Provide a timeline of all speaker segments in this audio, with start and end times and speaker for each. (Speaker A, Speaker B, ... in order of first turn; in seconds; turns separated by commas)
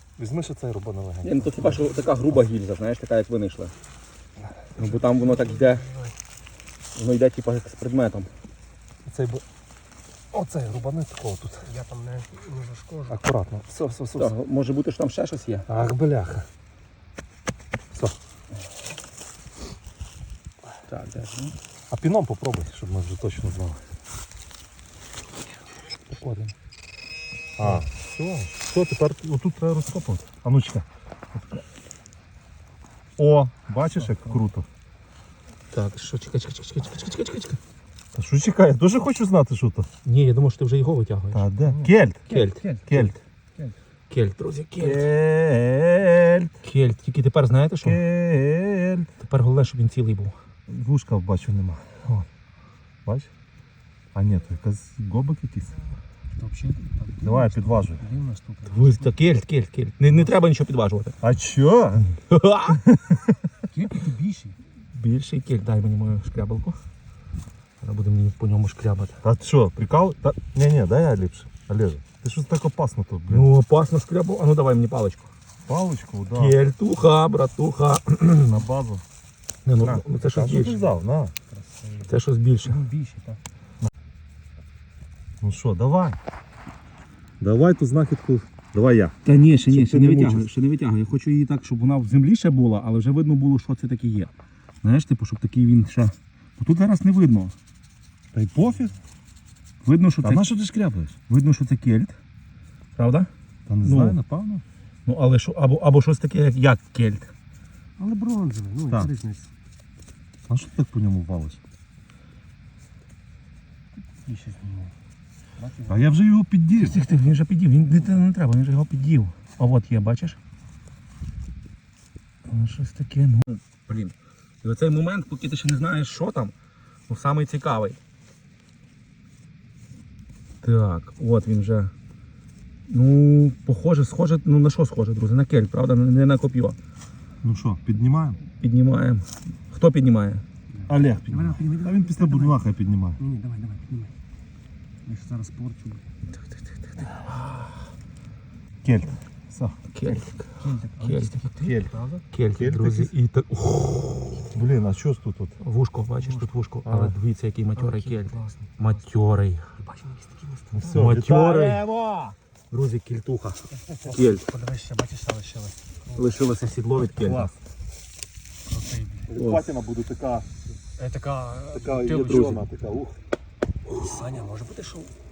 Speaker A: 0.2-2.0, Speaker B: 1.2-3.7, Speaker B: 4.8-5.9, Speaker C: 4.8-6.2, Speaker B: 6.9-8.3, Speaker A: 9.0-9.4, Speaker A: 10.3-11.7, Speaker C: 11.6-13.2, Speaker A: 13.1-14.3, Speaker B: 14.2-15.7, Speaker A: 15.7-16.5, Speaker B: 20.9-21.5, Speaker A: 21.9-23.8, Speaker B: 26.1-26.5, Speaker A: 27.6-31.6, Speaker A: 33.2-34.7, Speaker B: 35.7-37.6, Speaker A: 38.1-39.9, Speaker B: 40.0-41.5, Speaker A: 41.3-42.3, Speaker B: 42.2-43.2, Speaker C: 42.3-42.9, Speaker A: 42.8-43.1, Speaker B: 44.1-45.1, Speaker A: 44.8-46.5, Speaker B: 46.6-48.0, Speaker A: 47.8-49.1, Speaker B: 49.2-50.4, Speaker A: 50.7-52.2, Speaker A: 53.0-53.3, Speaker A: 54.1-56.0, Speaker C: 56.3-59.2, Speaker A: 57.2-58.0, Speaker B: 58.7-61.1, Speaker A: 61.2-63.4, Speaker B: 62.3-62.9, Speaker C: 63.7-64.6, Speaker B: 64.9-66.8, Speaker B: 67.8-69.2, Speaker A: 69.2-73.5, Speaker B: 73.3-75.3, Speaker A: 75.6-76.6, Speaker B: 76.3-78.6, Speaker A: 78.5-79.0, Speaker B: 79.7-80.8, Speaker A: 79.8-81.3, Speaker C: 81.5-83.4, Speaker B: 82.0-82.8, Speaker A: 85.4-86.2, Speaker A: 87.4-89.2, Speaker B: 89.2-94.3, Speaker A: 89.7-90.5, Speaker B: 94.8-97.5, Speaker A: 98.3-98.9, Speaker B: 99.8-100.5, Speaker A: 100.2-101.2, Speaker B: 101.3-102.2, Speaker B: 103.0-103.3, Speaker A: 103.7-104.6, Speaker B: 103.8-104.2, Speaker B: 105.0-107.3, Speaker C: 108.0-109.5, Speaker A: 110.5-111.6, Speaker C: 114.1-114.9, Speaker C: 115.6-116.2, Speaker A: 115.9-117.0, Speaker B: 116.7-120.4, Speaker B: 122.5-126.5, Speaker B: 127.1-128.0, Speaker B: 130.6-131.9, Speaker B: 132.9-136.8, Speaker A: 137.4-138.4, Speaker B: 138.6-140.4, Speaker C: 140.7-142.6, Speaker A: 140.9-143.2, Speaker C: 143.2-144.1, Speaker C: 145.0-146.0, Speaker B: 147.0-147.3, Speaker B: 148.8-149.1, Speaker A: 149.5-149.8, Speaker B: 149.9-151.4, Speaker C: 150.6-152.2, Speaker A: 151.5-151.9, Speaker B: 152.3-154.5, Speaker A: 152.6-153.1, Speaker A: 154.5-155.6, Speaker B: 155.6-159.7, Speaker C: 156.2-156.7, Speaker A: 156.8-157.1, Speaker C: 157.8-159.0, Speaker C: 159.8-161.0, Speaker A: 160.7-162.3, Speaker B: 160.9-161.8, Speaker B: 162.7-164.4, Speaker C: 163.9-166.5, Speaker B: 166.2-167.5, Speaker A: 167.0-167.6, Speaker C: 168.7-169.3, Speaker A: 169.3-170.5, Speaker B: 169.3-169.7, Speaker C: 170.9-172.6, Speaker A: 171.7-173.2, Speaker B: 172.3-172.6, Speaker C: 173.9-175.1